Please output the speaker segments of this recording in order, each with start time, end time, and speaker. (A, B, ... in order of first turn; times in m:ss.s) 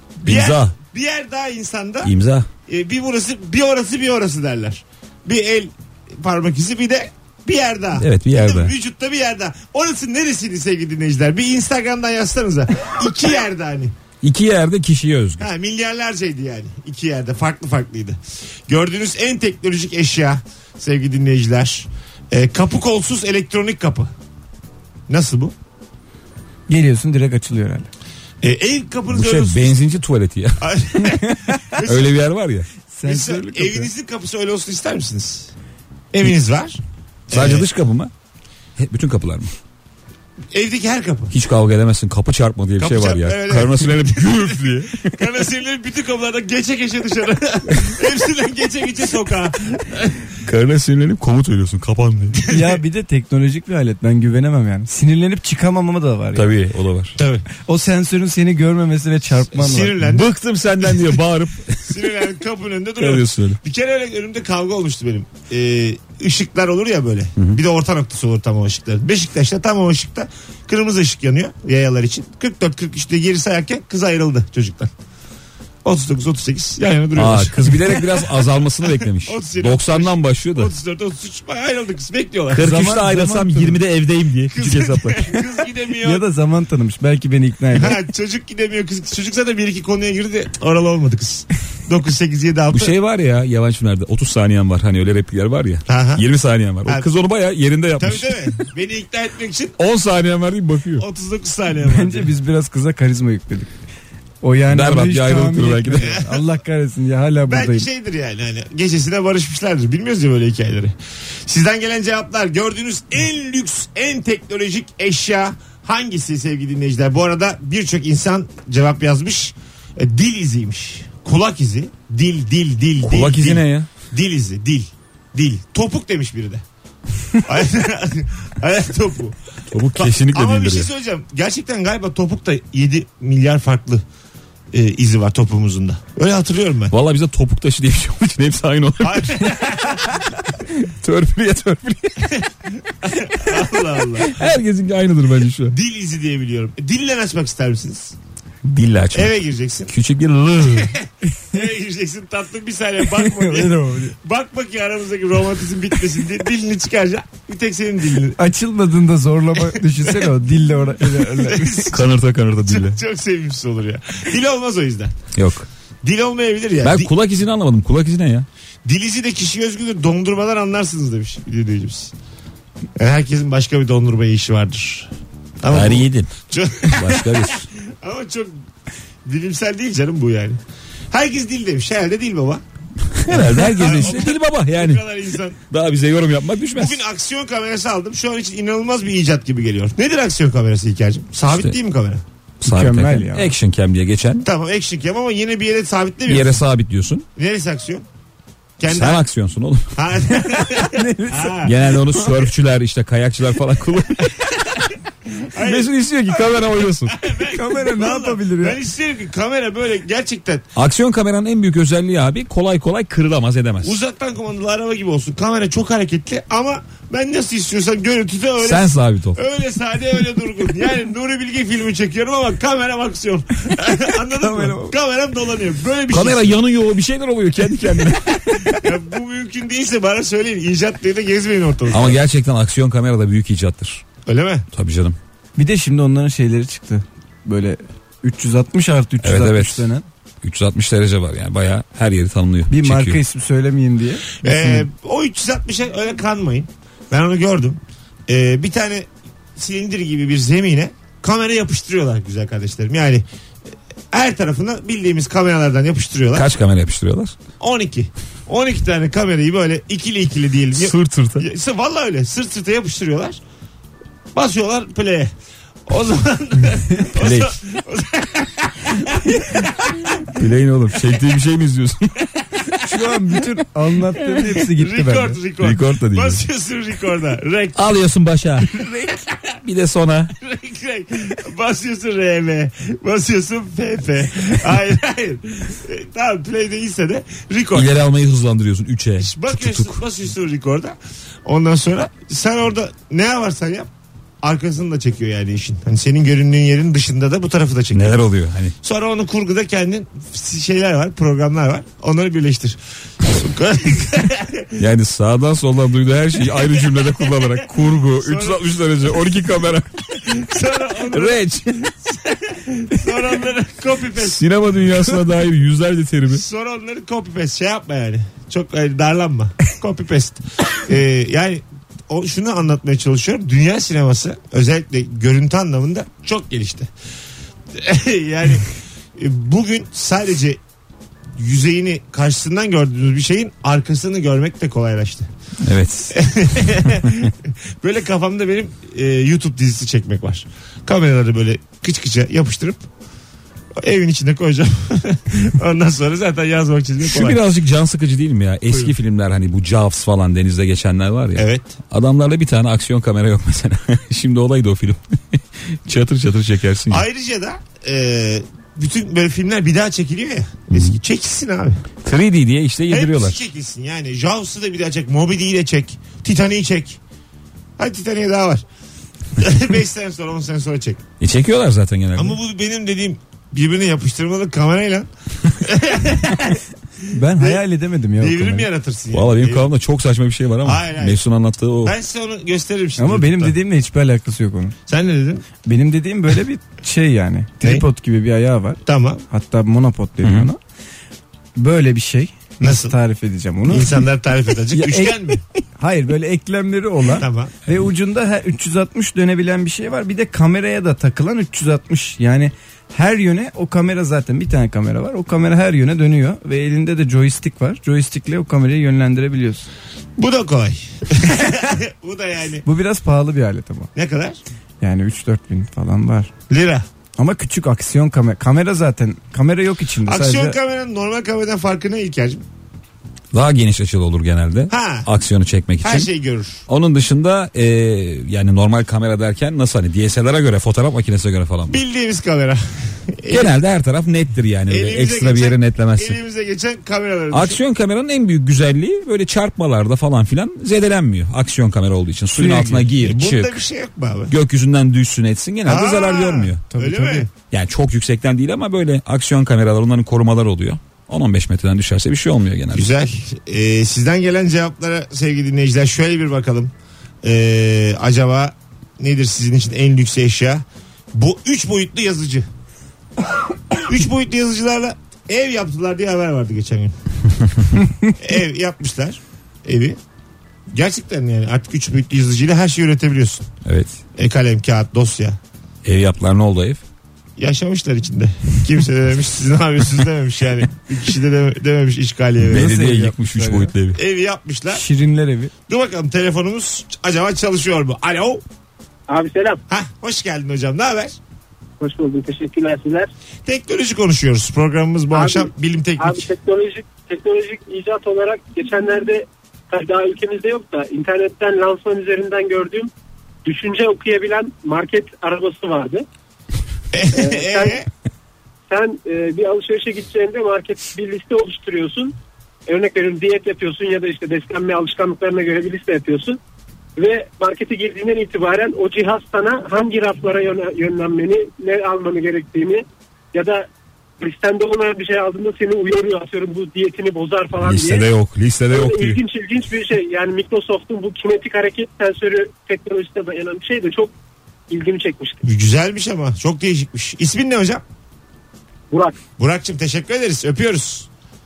0:00.2-0:02.1 A
0:00.2-0:00.7 B
0:02.0-0:02.5 B
0:02.7-0:13.9 A
0:08.0-0:08.7 B
0:14.2-0:15.5 B
0:15.4-0:24.1 A
0:25.1-0:25.5 A
0:26.7-0:27.9 C
0:28.4-0:29.8 A
0:29.1-0:30.7 B
0:30.6-0:32.2 A
0:31.2-0:31.6 C
0:31.8-0:32.7 B
0:32.9-0:33.9 C
0:33.0-0:35.5 A
0:36.1-0:37.7 A
0:37.3-0:38.1 B
0:38.8-0:39.5 B
0:40.5-0:41.4 A
0:41.3-0:45.2 B
0:42.8-0:50.3 A
0:50.4-0:52.4 B
0:52.3-0:52.8 A
0:52.5-0:56.5 C
0:56.4-0:57.2 B
0:57.2-0:57.4 A
0:57.7-1:00.0 C
0:59.5-1:01.2 A
1:00.0-1:02.0 B
1:01.8-1:14.9 A
1:03.0-1:03.6 B
1:15.8-1:22.8 A
1:17.2-1:20.7 B
1:22.5-1:25.3 B
1:22.6-1:23.8 C
1:24.5-1:26.2 A
1:26.0-1:28.0 C
1:27.7-1:32.9 A
1:32.7-1:38.6 B
1:35.9-1:36.2 A
1:38.0-1:39.8 A
1:39.8-1:41.0 B
1:41.0-1:42.3 A
1:41.8-1:43.7 C
1:44.4-1:47.9 C
1:44.7-1:46.2 B
1:46.0-1:46.4 A
1:47.5-1:50.9 A
1:51.5-2:06.6 A
2:03.0-2:03.9 B
2:07.3-2:09.4 A
2:09.7-2:10.9 B
2:09.9-2:14.0 A
2:14.7-2:16.9 A
2:16.9-2:19.9 B
2:19.0-2:20.2 A
2:20.7-2:22.4 B
2:23.0-2:24.5 A
2:24.2-2:25.8 B
2:25.7-2:28.2 A
2:28.6-2:29.3 B
2:29.1-2:29.9 A
2:29.9-2:31.0 B
2:30.7-2:38.4 A
2:33.1-2:34.2 C
2:38.4-2:41.9 C
2:39.6-2:40.3 A
2:41.1-2:42.1 A
2:41.9-2:43.0 B
2:42.6-2:45.2 A
2:45.4-2:45.7 B
2:46.0-2:47.1 A
2:46.8-2:48.5 B
2:48.8-2:52.1 A
2:53.0-2:58.6 A
2:55.7-2:57.7 B
2:59.2-3:00.6 A
3:01.1-3:02.6 A
3:03.1-3:05.0 B
3:03.3-3:05.6 A
3:05.7-3:07.0 B
3:06.8-3:12.2 A
3:12.6-3:13.5 C
3:12.6-3:14.5 B
3:14.4-3:16.6 A
3:16.3-3:17.3 B
3:17.4-3:18.0 A
3:18.8-3:19.2 A
3:18.9-3:20.0 B
3:20.0-3:21.9 A
3:20.4-3:21.6 C
3:21.6-3:24.5 B
3:25.4-3:30.7 A
3:25.6-3:27.2 B
3:27.5-3:28.8 C
3:30.8-3:34.0 B
3:33.8-3:46.6 A
3:38.6-3:39.4 B
3:44.4-3:45.0 C
3:46.1-3:48.8 B
3:48.7-3:52.2 A
3:51.9-3:54.1 B
3:54.2-3:54.7 A
3:54.7-3:55.2 B
3:55.6-4:00.0 C
3:59.2-3:59.9 B
4:00.4-4:03.2 B
4:02.7-4:04.8 C
4:04.4-4:13.2 A
4:14.1-4:16.5 A
4:16.4-4:17.4 B
4:17.6-4:23.4 A
4:20.8-4:21.5 B
4:24.3-4:25.3 A
4:25.9-4:30.2 A
4:27.2-4:27.6 B
4:30.3-4:32.3 B
4:32.8-4:35.4 C
4:34.6-4:37.8 A
4:35.6-4:36.4 B
4:37.8-4:38.9 B
4:38.8-4:39.4 A
4:39.6-4:40.3 B
4:40.4-4:47.9 A
4:47.7-4:50.0 B
4:49.2-4:53.9 A
4:54.4-4:58.2 A
4:57.9-4:58.8 B
4:58.8-5:04.8 A
5:04.8-5:10.1 B
5:06.5-5:08.6 A
5:10.2-5:14.4 A
5:11.1-5:11.9 B
5:14.2-5:16.4 B
5:16.3-5:26.9 A
5:27.7-5:30.6 A
5:31.4-5:35.3 A
5:35.6-5:37.3 B
5:36.1-5:42.9 A
5:43.8-5:47.4 A
5:47.0-5:57.0 B
5:51.4-5:51.7 A
5:56.9-6:01.8 A
6:00.7-6:01.0 B
6:02.0-6:03.4 B
6:02.9-6:07.0 A
6:07.8-6:08.6 A
6:09.4-6:11.0 A
6:11.2-6:12.4 B
6:12.2-6:16.6 A
6:17.1-6:18.7 C
6:17.3-6:17.6 A
6:18.2-6:19.7 A
6:19.1-6:22.0 B
6:20.6-6:21.2 A
6:21.8-6:23.6 A
6:23.0-6:24.8 C
6:24.9-6:25.4 A
6:25.6-6:30.6 C
6:28.8-6:29.2 A
6:30.2-6:30.5 B
6:31.6-6:34.1 C
6:32.6-6:33.0 A
6:33.7-6:35.4 A
6:34.7-6:49.7 C
6:37.1-6:37.6 A
6:50.2-6:52.6 A
6:52.6-6:53.9 C
6:54.0-6:54.4 A
6:54.8-6:56.3 C
6:56.5-6:56.8 A
6:57.2-7:00.6 C
7:00.0-7:02.4 A
7:03.3-7:06.1 B
7:04.7-7:05.1 A
7:05.8-7:06.6 A
7:06.7-7:11.8 B
7:11.7-7:13.6 A
7:13.3-7:16.2 B
7:14.7-7:17.6 A
7:17.3-7:23.6 B
7:22.3-7:22.9 C
7:23.0-7:24.3 A
7:24.3-7:26.6 B
7:25.7-7:27.3 A
7:26.7-7:27.3 C
7:27.5-7:33.0 B
7:32.7-7:42.5 A
7:43.7-7:46.9 A
7:48.2-7:50.0 A
7:50.7-7:53.5 A
7:53.6-7:54.0 B
7:54.2-7:55.4 A
7:55.8-7:56.8 B
7:57.4-8:02.7 A
8:02.4-8:04.0 B
8:02.5-8:03.7 C
8:04.0-8:04.8 A
8:04.7-8:05.5 C
8:05.7-8:08.4 A
8:09.1-8:09.6 D
8:09.7-8:11.2 A
8:11.8-8:13.1 D
8:13.4-8:16.3 A
8:15.1-8:22.9 D
8:23.4-8:26.0 D
8:26.9-8:27.9 A
8:27.1-8:27.8 D
8:28.7-8:32.1 D
8:32.7-8:36.4 D
8:37.0-8:43.7 D
8:44.2-8:48.1 D
8:47.6-8:49.2 B
8:48.7-8:54.1 D
8:54.7-8:55.4 D
8:55.4-8:57.8 A
8:58.9-8:59.2 D
8:59.4-9:01.1 A